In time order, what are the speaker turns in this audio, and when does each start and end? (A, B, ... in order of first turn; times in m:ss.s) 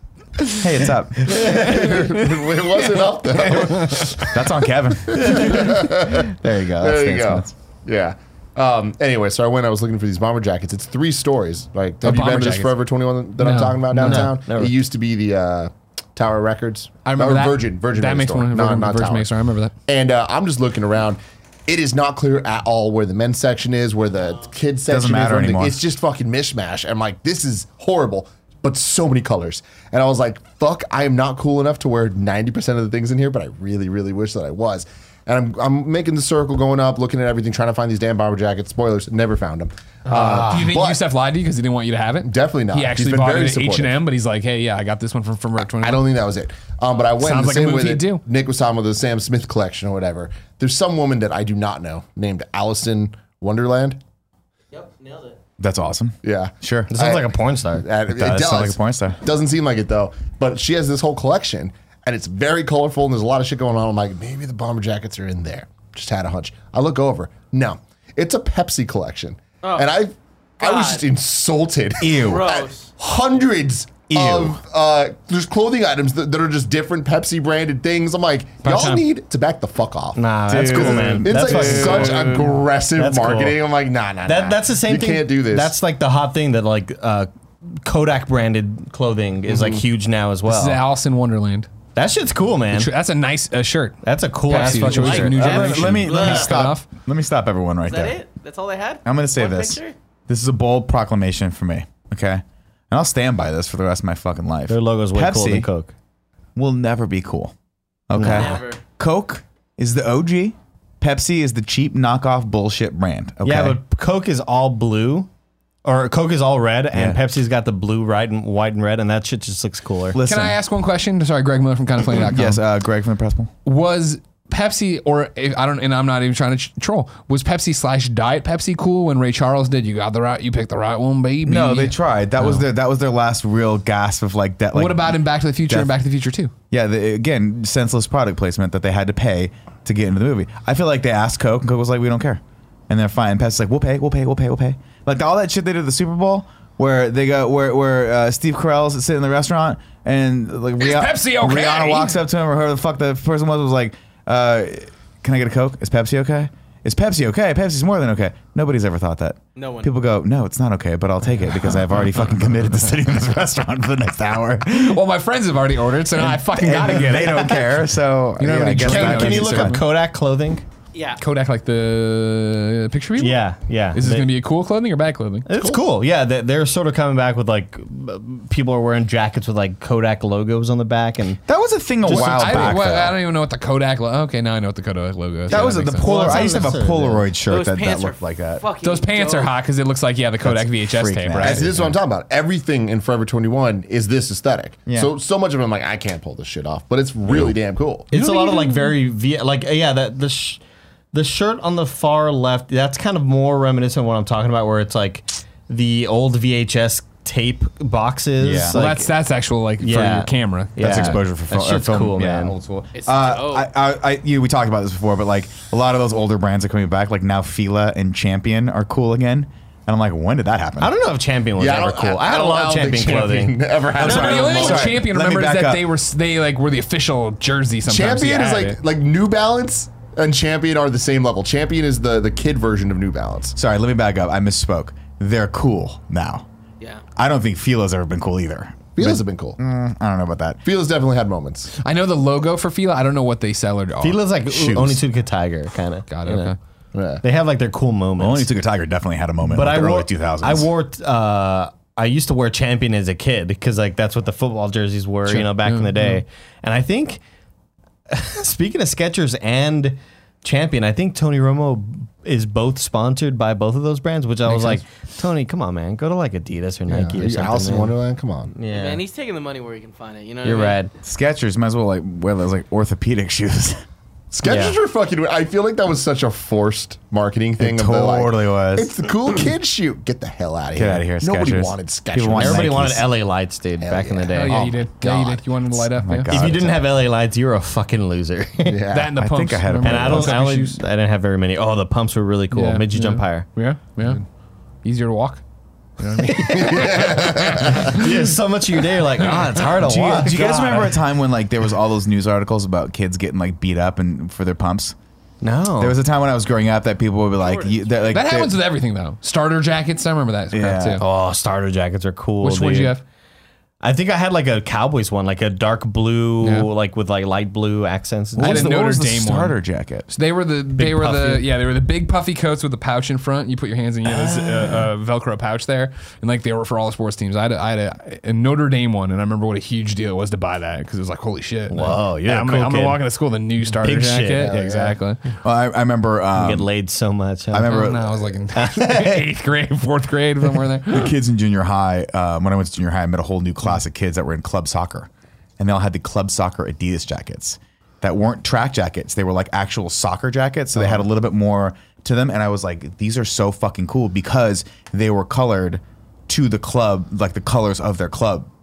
0:00.6-0:01.6 A
0:01.2-0:02.0 B
0:01.3-0:04.3 C
0:03.4-0:07.5 A
0:05.1-0:19.3 C
0:12.0-0:12.8 D
0:13.4-0:14.3 D
0:14.0-0:14.8 B
0:17.0-0:19.7 D
0:19.9-0:41.0 C
0:24.9-0:25.8 A
0:40.1-0:46.1 D
0:42.2-0:44.0 C
0:45.8-0:54.0 C
0:47.2-0:48.2 D
0:54.7-0:55.4 E
0:55.6-0:56.9 A
0:56.2-1:25.8 C
0:56.9-0:57.8 B
0:58.1-0:59.2 A
1:09.6-1:09.9 E
1:10.6-1:11.1 E
1:12.0-1:12.4 B
1:12.2-1:12.9 E
1:14.1-1:14.6 B
1:18.6-1:19.1 D
1:20.2-1:23.6 B
1:20.5-1:22.5 A
1:24.2-1:30.8 B
1:29.5-1:29.8 C
1:30.5-1:31.7 D
1:32.0-1:32.9 B
1:32.7-1:36.9 D
1:34.0-1:36.0 B
1:34.5-1:36.6 E
1:35.0-1:38.2 A
1:37.8-1:39.9 E
1:39.0-1:45.7 A
1:44.7-1:45.9 B
1:46.6-1:47.5 A
1:48.1-1:53.8 A
1:48.1-1:48.6 B
1:48.2-1:48.8 E
1:53.4-1:55.3 B
1:55.8-2:00.2 B
1:56.9-1:57.2 A
2:00.1-2:00.6 A
2:00.2-2:02.6 D
2:02.2-2:03.5 A
2:03.7-2:12.6 D
2:11.4-2:15.9 A
2:14.7-2:16.5 D
2:16.7-2:45.0 A
2:30.8-2:32.2 D
2:39.6-2:39.9 E
2:44.8-2:47.8 D
2:46.1-2:49.7 A
2:48.4-2:49.9 D
2:48.8-2:50.6 B
2:50.9-2:51.2 E
2:51.2-2:53.4 D
2:53.2-2:54.3 B
2:53.9-2:55.5 D
2:55.5-3:01.4 B
2:55.6-2:55.8 C
3:01.5-3:03.2 A
3:02.0-3:06.1 D
3:02.1-3:02.7 B
3:05.5-3:07.3 B
3:05.5-3:08.6 A
3:07.4-3:09.5 E
3:08.8-3:11.7 D
3:10.4-3:12.0 A
3:11.4-3:18.1 C
3:14.9-3:15.1 A
3:17.3-3:17.5 A
3:18.1-3:20.6 B
3:21.1-3:29.1 B
3:28.4-3:28.8 A
3:28.7-3:31.2 D
3:29.8-3:32.5 B
3:30.8-3:40.9 A
3:32.9-3:33.7 E
3:40.8-3:44.4 B
3:41.6-3:45.0 C
3:43.9-3:48.8 D
3:44.0-3:45.9 A
3:47.8-3:53.6 C
3:53.6-3:56.5 A
3:57.2-4:00.6 A
3:59.0-3:59.6 C
4:00.6-4:01.7 C
4:01.8-4:04.2 D
4:04.0-4:06.6 B
4:04.5-4:05.0 A
4:06.1-4:06.6 D
4:06.9-4:07.2 C
4:07.2-4:08.5 B
4:08.2-4:10.7 A
4:09.4-4:17.2 B
4:15.3-4:16.2 D
4:18.1-4:28.0 B
4:24.4-4:24.8 D
4:26.9-4:28.6 C
4:28.6-4:29.0 B
4:28.7-4:30.8 E
4:30.4-4:30.9 B
4:31.0-4:33.8 A
4:34.3-4:43.0 C
4:34.4-4:34.8 B
4:37.6-4:38.9 A
4:40.7-4:43.1 A
4:42.4-4:45.4 B
4:43.8-4:44.5 C
4:44.3-4:46.3 D
4:45.7-4:46.9 A
4:46.3-4:48.9 B
4:48.7-4:49.2 C
4:48.9-4:50.8 D
4:49.2-4:50.4 A
4:49.8-4:53.5 B
4:52.5-4:54.2 D
4:54.8-4:55.4 D
4:56.0-4:58.4 D
4:56.2-5:01.0 B
4:56.5-4:58.0 C
4:59.2-4:59.6 D
4:59.8-5:05.0 A
5:05.4-5:06.0 B
5:05.8-5:08.6 A
5:07.4-5:07.9 E
5:08.1-5:11.0 D
5:10.5-5:11.0 A
5:11.0-5:13.0 B
5:12.4-5:13.0 D
5:13.8-5:18.8 B
5:16.4-5:16.7 D
5:18.4-5:20.1 A
5:18.4-5:19.6 D
5:20.1-5:35.2 D
5:20.8-5:21.5 B
5:24.0-5:24.9 B
5:31.7-5:33.0 B
5:33.7-5:34.9 B
5:34.4-5:35.0 C
5:35.4-5:36.7 A
5:36.4-5:37.8 B
5:37.5-5:38.2 A
5:37.6-5:41.1 D
5:38.5-5:39.3 B
5:40.9-5:58.5 A
5:50.8-5:51.0 C